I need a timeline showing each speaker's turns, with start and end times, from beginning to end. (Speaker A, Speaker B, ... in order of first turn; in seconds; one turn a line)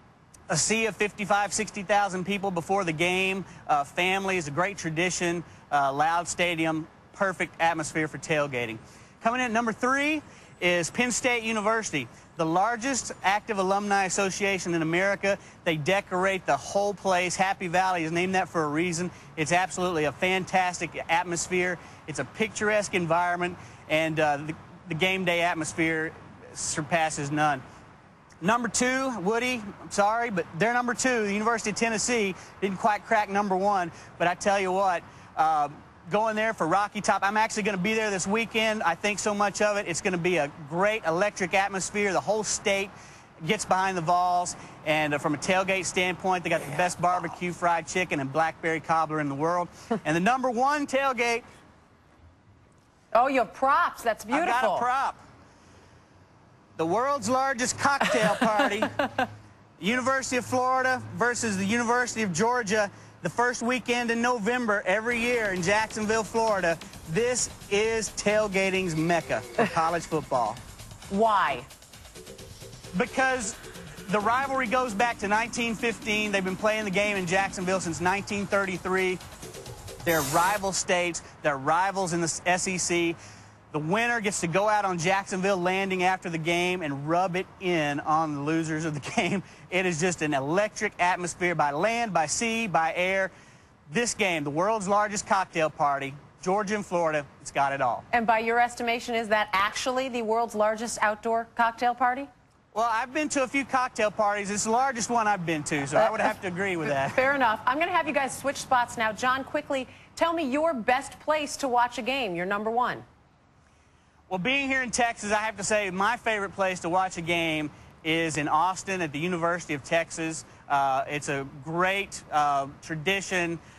Speaker A: 0.5-27.6
Speaker A: 28.4-51.4
Speaker B: 53.1-54.9
Speaker A: 54.3-55.2
Speaker A: 56.8-59.0
Speaker A: 59.8-70.6
Speaker B: 71.1-71.7
Speaker A: 72.9-79.2
Speaker A: 80.0-83.2
Speaker A: 83.7-93.3
Speaker A: 93.9-98.0
Speaker B: 98.1-102.3
Speaker A: 102.7-107.2
Speaker B: 106.8-113.0
Speaker A: 114.3-123.6